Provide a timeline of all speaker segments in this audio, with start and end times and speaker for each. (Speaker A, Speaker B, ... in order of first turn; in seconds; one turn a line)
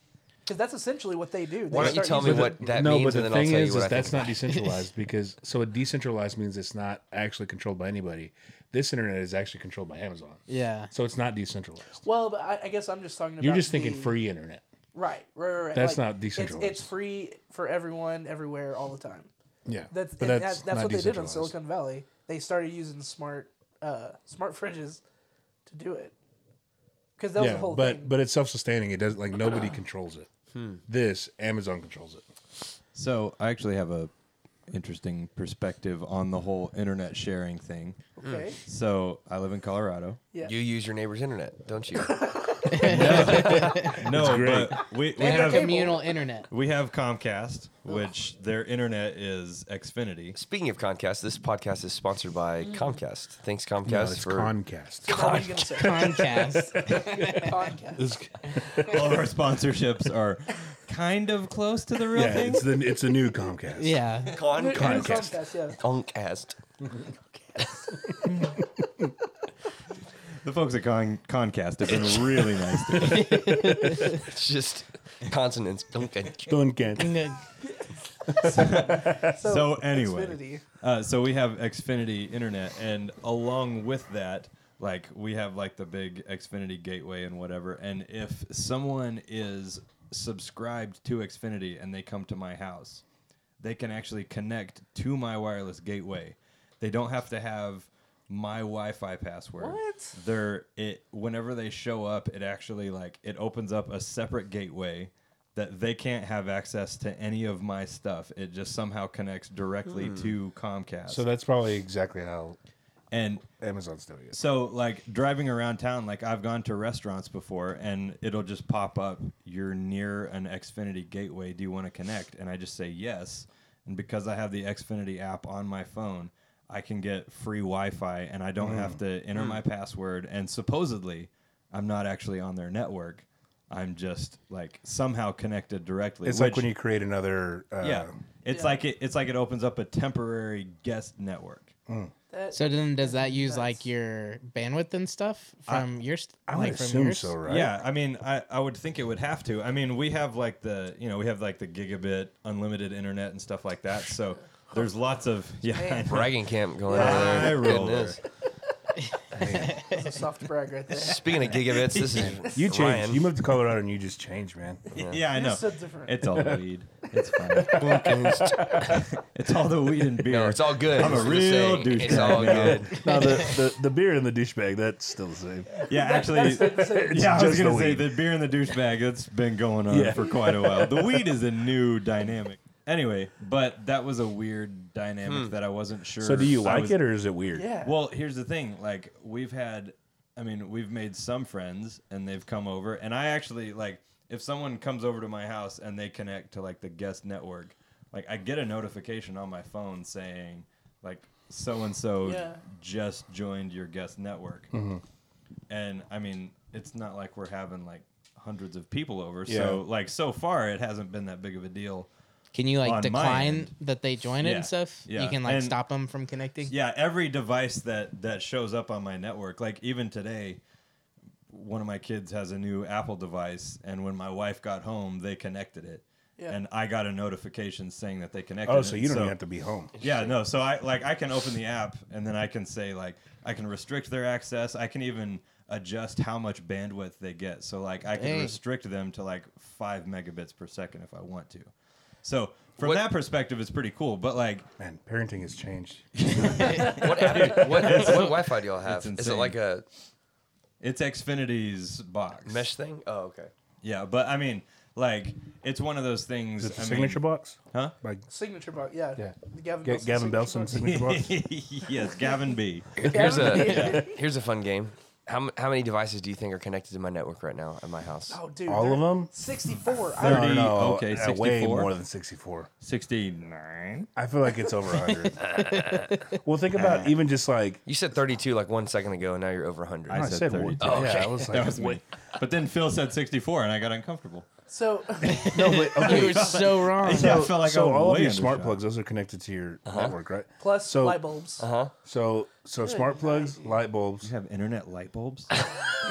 Speaker A: 0.5-2.6
Speaker B: 1.7-4.4
Speaker C: 1.8-12.0
Speaker D: 10.5-10.9
Speaker A: 12.0-14.1
Speaker C: 13.4-14.6
Speaker A: 14.9-19.3
Speaker C: 15.7-16.9
Speaker C: 19.7-21.5
Speaker A: 19.9-25.0
Speaker A: 25.7-26.1
Speaker A: 27.2-28.1
Speaker C: 27.4-30.3
Speaker B: 30.5-30.8
Speaker C: 30.9-32.2
Speaker E: 33.0-34.1
Speaker E: 34.7-38.1
Speaker A: 38.2-38.6
Speaker B: 38.2-38.5
Speaker E: 38.6-40.2
Speaker B: 40.4-42.2
Speaker A: 42.0-43.5
Speaker D: 42.7-44.0
Speaker E: 42.8-45.9
Speaker B: 43.1-43.6
Speaker C: 43.2-44.9
Speaker A: 45.2-46.1
Speaker D: 45.2-46.5
Speaker E: 46.5-50.4
Speaker B: 50.3-54.5
Speaker A: 52.6-53.0
Speaker C: 53.8-59.1
Speaker A: 55.1-56.4
Speaker B: 55.1-55.5
Speaker D: 55.8-57.6
Speaker A: 57.3-58.1
Speaker E: 58.8-62.8
Speaker C: 62.1-64.1
Speaker D: 63.8-64.4
Speaker B: 64.3-66.6
Speaker A: 64.4-65.8
Speaker C: 64.7-65.4
Speaker A: 67.6-68.1
Speaker E: 70.4-73.6
Speaker B: 71.9-72.3
Speaker D: 73.0-74.2
Speaker B: 74.1-76.6
Speaker C: 76.5-77.2
Speaker D: 77.0-77.4
Speaker C: 78.3-79.3
Speaker A: 78.4-80.6
Speaker E: 78.5-93.0
Speaker E: 93.6-111.2
Speaker A: 99.6-100.2
Speaker B: 110.0-110.3
Speaker C: 111.1-112.6
Speaker E: 113.1-113.5
Speaker C: 113.6-114.4
Speaker E: 114.3-136.7
Speaker C: 128.6-129.0
Speaker B: 129.3-129.6
Speaker C: 136.2-138.1
Speaker E: 137.8-141.7
Speaker A: 138.5-138.8
Speaker A: 142.3-143.9
Speaker D: 142.5-147.4
Speaker C: 146.5-147.7
Speaker E: 147.4-158.2
Speaker A: 155.8-156.1
Speaker B: 156.1-158.2
Speaker A: 156.9-157.8
Speaker C: 159.3-159.8
Speaker D: 159.6-159.9
Speaker A: 159.8-161.7
Speaker B: 160.9-163.2
Speaker E: 162.0-162.3
Speaker C: 162.4-164.8
Speaker B: 164.9-165.2
Speaker E: 164.9-168.2
Speaker A: 165.3-166.2
Speaker C: 167.5-168.9
Speaker B: 167.7-168.9
Speaker E: 168.8-172.9
Speaker B: 170.3-173.2
Speaker C: 171.0-171.2
Speaker C: 172.0-175.8
Speaker D: 173.0-173.6
Speaker A: 175.8-177.6
Speaker E: 175.8-187.0
Speaker C: 176.5-178.1
Speaker C: 179.9-181.2
Speaker B: 185.2-185.5
Speaker C: 186.2-187.7
Speaker A: 187.5-188.0
Speaker E: 187.8-204.7
Speaker A: 202.2-202.6
Speaker C: 204.7-205.0
Speaker E: 205.7-212.1
Speaker C: 209.5-209.8
Speaker D: 212.5-216.7
Speaker E: 212.8-213.7
Speaker E: 214.4-215.8
Speaker E: 216.7-220.6
Speaker E: 221.5-229.4
Speaker C: 228.7-229.9
Speaker B: 230.0-230.4
Speaker E: 230.0-241.7
Speaker D: 238.1-238.6
Speaker E: 242.2-244.7
Speaker C: 244.8-246.8
Speaker E: 246.2-249.6
Speaker B: 246.8-249.8
Speaker E: 250.8-252.7
Speaker B: 252.4-253.5
Speaker E: 253.8-257.9
Speaker C: 256.6-258.3
Speaker A: 258.3-261.0
Speaker C: 259.2-261.4
Speaker E: 260.7-264.1
Speaker B: 263.0-268.4
Speaker A: 263.0-264.2
Speaker A: 268.3-270.7
Speaker C: 268.7-269.3
Speaker E: 270.1-271.9
Speaker C: 270.2-272.7
Speaker E: 272.8-274.1
Speaker C: 274.2-275.4
Speaker D: 274.9-276.3
Speaker B: 275.4-276.2
Speaker C: 276.4-277.8
Speaker E: 276.8-277.1
Speaker B: 277.9-281.5
Speaker C: 280.1-282.0
Speaker E: 280.1-284.4
Speaker A: 284.7-285.5
Speaker D: 285.2-287.5
Speaker C: 285.5-291.2
Speaker E: 286.0-288.8
Speaker A: 286.2-286.4
Speaker B: 289.9-290.1
Speaker A: 290.6-291.7
Speaker B: 291.6-291.9
Speaker C: 292.0-294.3
Speaker A: 292.8-293.7
Speaker E: 294.2-295.5